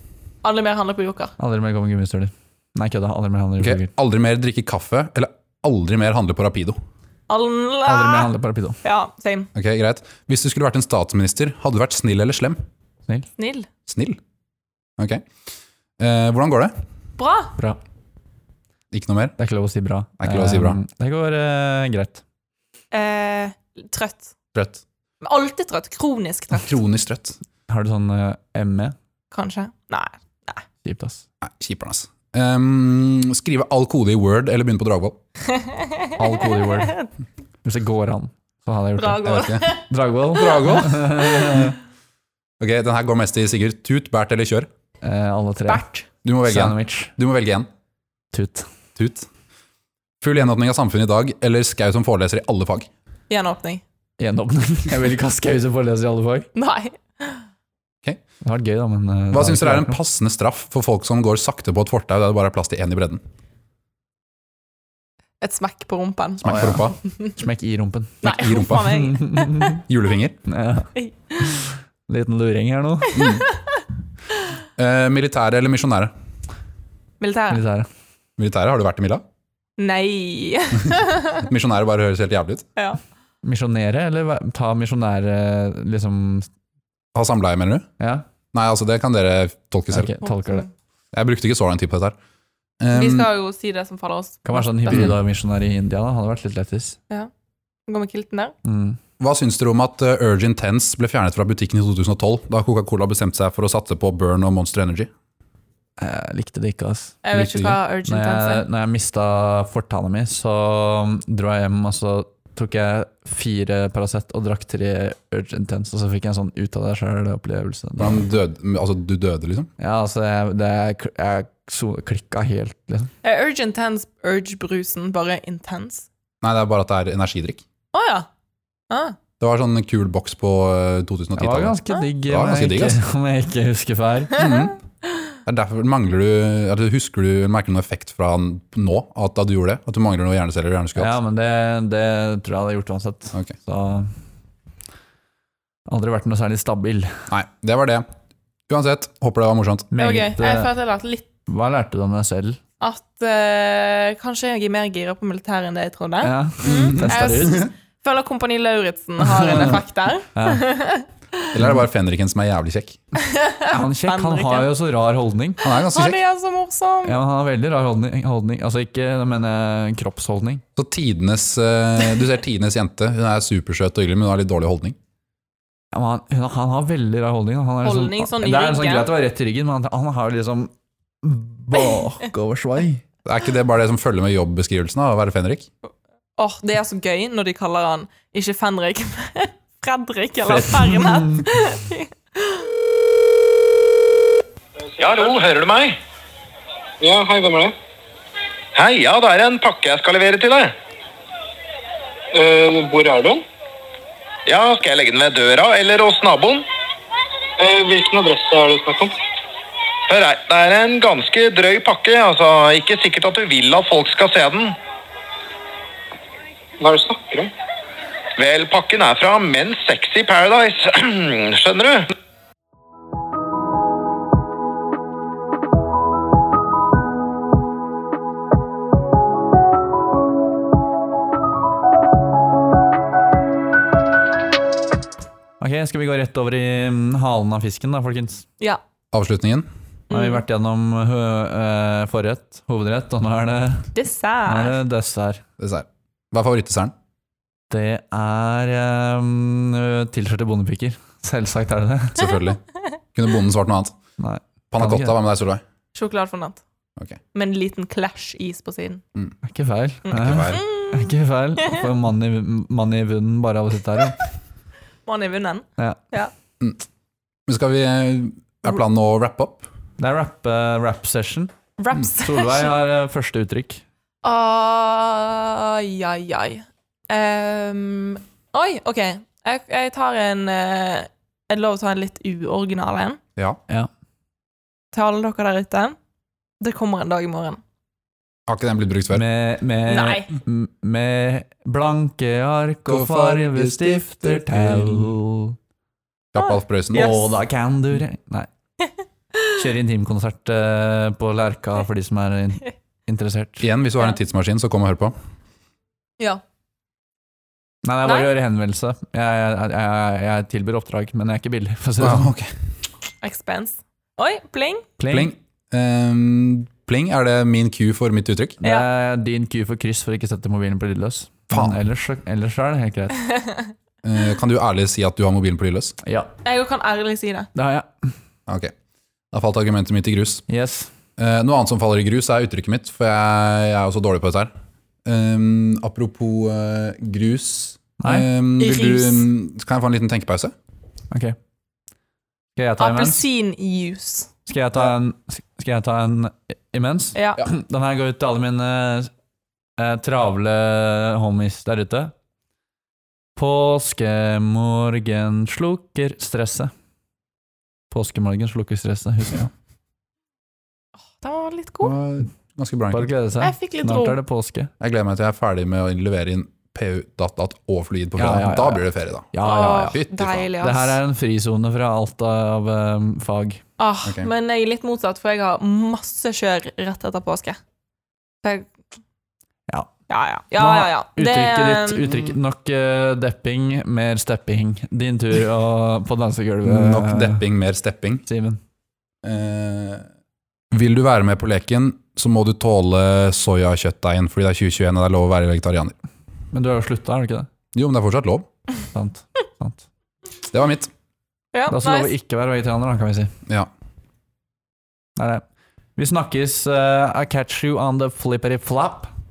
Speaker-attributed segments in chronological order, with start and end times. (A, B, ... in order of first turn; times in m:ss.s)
0:00.4-0:01.4 A
0:01.4-0:03.9 B
0:03.6-0:06.8 C
0:07.3-0:08.3 A
0:07.9-0:08.8 B
0:08.8-0:09.5 A
0:09.6-0:12.6 C
0:13.4-0:13.7 A
0:13.9-0:14.2 C
0:15.0-0:15.3 C
0:16.0-0:16.7 C
0:17.2-0:17.6 A
0:18.9-0:19.4 C
0:19.4-0:22.2 B
0:20.2-0:20.8 C
0:22.9-0:24.3 A
0:24.6-0:24.8 C
0:25.2-0:26.8 A
0:26.6-0:27.4 C
0:27.7-0:29.0 B
0:29.3-0:30.6 A
0:30.8-0:31.2 B
0:31.4-0:35.2 C
0:36.0-0:37.1 A
0:36.2-0:37.0 B
0:37.6-0:39.2 B
0:39.0-0:39.9 A
0:39.2-0:39.7 C
0:39.9-0:41.8 B
0:40.3-0:41.4 C
0:42.6-0:44.7 C
0:45.0-0:47.1 B
0:46.2-0:47.7 C
0:48.3-0:48.7 B
0:49.0-0:49.3 C
0:50.2-0:52.9 C
0:53.3-0:53.8 A
0:54.2-0:56.5 B
0:56.6-0:57.4 A
0:58.4-1:00.0 B
0:59.3-1:03.2 C
1:05.4-1:07.3 A
1:06.4-1:07.0 C
1:06.5-1:08.2 B
1:08.2-1:09.1 C
1:08.2-1:09.8 A
1:08.8-1:09.8 B
1:09.9-1:10.4 C
1:10.5-1:13.2 B
1:11.0-1:11.5 A
1:13.1-1:13.5 A
1:13.2-1:13.4 C
1:14.8-1:16.1 C
1:17.2-1:17.6 A
1:17.5-1:17.9 B
1:18.4-1:19.2 C
1:19.8-1:21.4 A
1:21.4-1:22.7 C
1:23.4-1:26.5 B
1:27.1-1:27.9 C
1:28.0-1:28.2 B
1:28.5-1:30.2 C
1:29.9-1:30.7 B
1:30.3-1:30.7 A
1:31.1-1:32.2 C
1:32.8-1:33.3 C
1:32.9-1:35.1 A
1:34.4-1:37.0 B
1:34.9-1:35.2 C
1:37.9-1:38.6 A
1:38.6-1:39.0 B
1:39.2-1:45.1 C
1:46.0-1:58.2 B
1:47.2-1:48.7 A
1:47.3-1:47.8 C
1:58.0-1:59.7 C
1:59.8-2:03.1 B
2:03.2-2:06.1 A
2:06.4-2:07.6 C
2:07.9-2:08.3 A
2:08.9-2:09.2 A
2:09.4-2:11.8 C
2:11.4-2:14.3 B
2:12.3-2:13.0 C
2:14.4-2:14.8 C
2:15.5-2:21.1 C
2:21.0-2:24.1 B
2:25.9-2:27.2 B
2:27.3-2:28.1 C
2:28.7-2:29.9 C
2:29.9-2:30.7 B
2:30.0-2:31.3 A
2:31.5-2:32.6 B
2:32.8-2:41.4 A
2:36.2-2:37.6 B
2:36.6-2:37.6 C
2:39.2-2:40.6 B
2:41.5-2:43.0 C
2:43.2-2:44.7 A
2:43.7-2:45.6 B
2:45.6-2:46.2 C
2:45.6-2:47.2 A
2:47.0-2:50.6 B
2:50.8-2:55.0 C
2:55.9-3:03.0 B
2:57.8-2:59.1 A
3:03.2-3:05.7 C
3:06.4-3:12.7 A
3:10.4-3:11.5 B
3:15.0-3:16.0 D
3:17.0-3:17.7 E
3:18.8-3:20.8 D
3:22.3-3:23.4 E
3:24.5-3:26.6 D
3:27.6-3:29.2 E
3:30.1-3:34.8 D
3:36.8-3:37.5 E
3:38.4-3:42.1 D
3:55.6-3:58.5 B
3:59.1-3:59.7 C
4:00.1-4:00.4 A
4:00.1-4:03.9 B
4:03.9-4:04.8 A
4:04.5-4:05.4 B
4:05.6-4:06.9 C
4:07.7-4:12.2 B
4:12.2-4:12.6 C
4:13.2-4:14.0 C
4:14.2-4:15.2 B
4:14.7-4:15.6 C
4:16.0-4:16.6 A
4:17.3-4:19.0 A
4:19.4-4:24.2 B
4:20.1-4:21.1 A
4:20.2-4:20.6 C
4:25.1-4:26.3 A
4:27.5-4:29.7 C
4:30.0-4:31.5 B
4:31.8-4:32.7 A
4:32.2-4:33.8 B
4:34.2-4:43.2 A
4:44.9-4:46.0 A
4:46.6-4:47.6 A
4:48.5-4:49.2 C
4:49.1-4:55.6 B
4:49.9-4:50.3 A
4:52.9-4:55.2 C
4:56.3-4:57.2 C
4:56.4-4:57.2 A
4:56.9-4:58.5 B
4:59.6-5:03.7 B
5:03.6-5:05.1 C
5:07.8-5:12.3 B
5:08.0-5:08.3 A
5:12.0-5:12.6 C
5:13.2-5:14.9 A
5:15.0-5:15.3 B
5:15.1-5:18.6 C
5:18.6-5:23.2 B
5:21.5-5:21.8 C
5:24.0-5:26.0 C
5:26.0-5:26.3 B
5:26.4-5:27.5 A
5:27.6-5:28.1 B
5:28.5-5:28.7 C
5:29.3-5:30.4 C
5:30.5-5:30.9 B
5:31.2-5:34.5 C
5:35.0-5:40.5 C
5:38.0-5:38.3 B
5:38.6-5:39.3 A
5:41.1-5:41.4 B
5:42.6-5:43.2 B
5:42.8-5:44.3 A
5:44.5-5:49.1 B
5:47.2-5:47.4 A
5:49.8-5:52.1 B
5:53.4-5:56.7 B
5:57.9-5:59.5 B
6:01.2-6:02.0 A
6:01.8-6:03.1 C
6:02.9-6:04.7 B
6:03.4-6:04.2 A
6:04.8-6:10.5 C
6:08.2-6:10.0 B
6:09.4-6:11.0 A
6:10.6-6:13.6 B
6:13.8-6:17.6 A
6:14.0-6:14.3 C
6:18.4-6:18.7 A
6:20.1-6:22.0 A
6:20.5-6:27.4 B
6:26.6-6:28.2 C
6:28.3-6:28.6 B
6:29.2-6:30.1 C
6:30.7-6:36.0 C
6:36.5-6:37.5 B
6:37.7-6:38.5 C
6:38.9-6:39.8 B
6:40.5-6:40.9 C
6:41.5-6:42.1 A
6:41.7-6:43.3 B
6:45.2-6:45.4 B
6:46.0-6:49.1 B